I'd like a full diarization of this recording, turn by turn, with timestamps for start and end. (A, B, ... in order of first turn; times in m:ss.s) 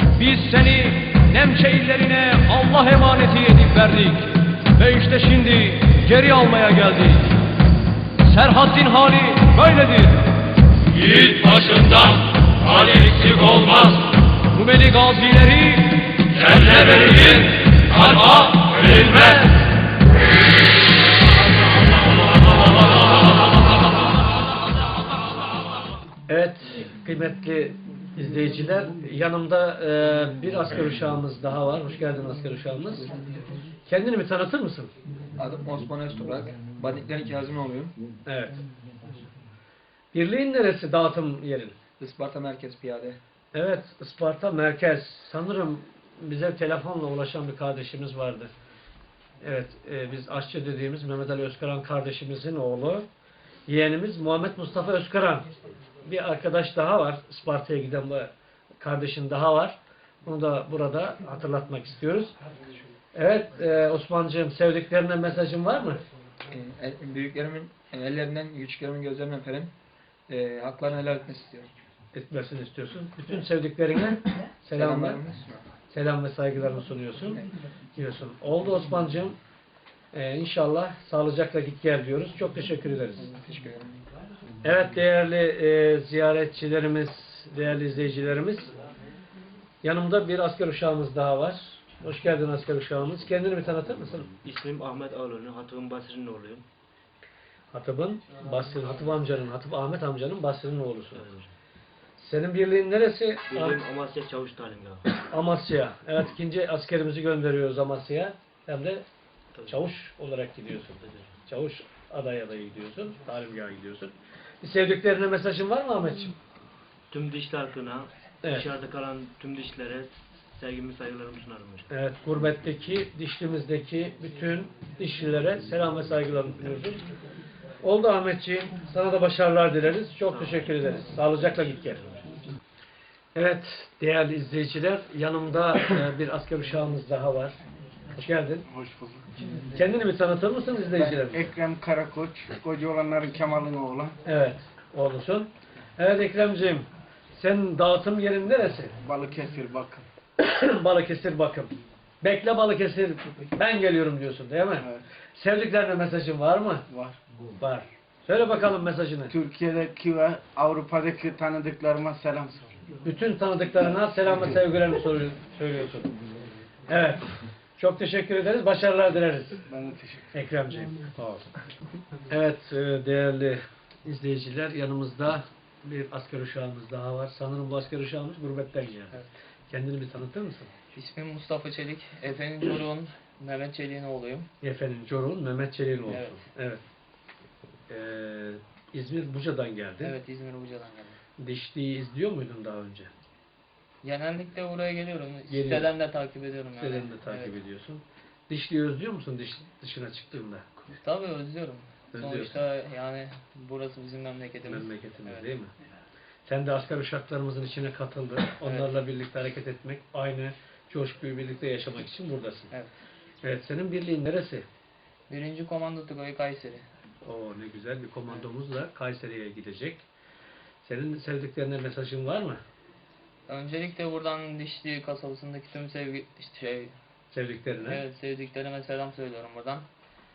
0:00.2-0:04.6 A
0:04.8-0:07.2 B
0:08.3-0:10.2 B
0:11.0-0:12.1 A
0:12.7-0:13.9 A
0:14.6-0:15.6 B
0:16.0-0:19.2 A
0:26.3-0:33.1 C
0:33.8-0:34.9 C
0:35.4-0:37.9 D
0:38.2-0:38.6 C
0:40.1-0:41.8 C
0:42.0-0:43.2 D
0:43.5-0:48.5 C
0:49.4-0:53.1 C
0:53.7-0:55.5 C
0:56.0-1:02.3 C
1:03.1-1:06.0 C
1:06.5-1:09.7 D
1:10.3-1:11.7 D
1:12.1-1:15.2 C
1:14.7-1:15.7 D
1:15.9-1:17.4 C
1:18.0-1:19.4 C
1:20.1-1:23.3 C
1:23.2-1:24.0 D
1:24.6-1:28.7 C
1:29.8-1:34.3 C
1:34.4-1:36.3 E
1:34.6-1:36.6 A
1:37.7-1:41.3 C
1:42.2-1:43.8 C
1:43.6-1:45.0 E
1:44.0-1:44.8 A
1:45.3-1:49.0 C
1:49.7-1:56.4 C
1:57.1-1:58.1 E
1:58.4-1:58.7 C
1:58.6-2:01.8 E
2:01.9-2:07.0 C
2:07.8-2:12.0 C
2:10.3-2:10.7 E
2:13.3-2:17.5 C
2:18.1-2:18.6 C
2:19.7-2:21.5 C
2:21.0-2:24.2 F
2:24.2-2:28.9 C
2:29.0-2:30.0 F
2:30.4-2:36.8 C
2:36.9-2:37.2 F
2:37.6-2:39.4 C
2:39.3-2:42.7 F
2:43.0-2:46.1 C
2:46.9-2:49.6 C
2:49.7-2:50.3 F
2:50.3-2:51.5 C
2:52.3-3:00.7 C
3:00.9-3:04.5 G
3:04.6-3:06.8 C
3:06.0-3:06.4 G
3:07.9-3:10.2 C
3:10.0-3:11.2 G
3:11.4-3:13.1 C
3:14.0-3:17.6 G
3:15.5-3:16.0 C
3:16.8-3:20.7 C
3:21.0-3:25.5 G
3:22.1-3:22.6 C
3:24.6-3:25.7 C
3:26.4-3:32.7 C
3:28.6-3:28.9 G
3:33.4-3:34.6 C
3:35.3-3:36.8 G
3:37.2-3:40.0 C
3:40.8-3:42.6 C
3:43.5-3:46.9 G
3:47.3-3:48.0 C
3:47.8-3:49.8 G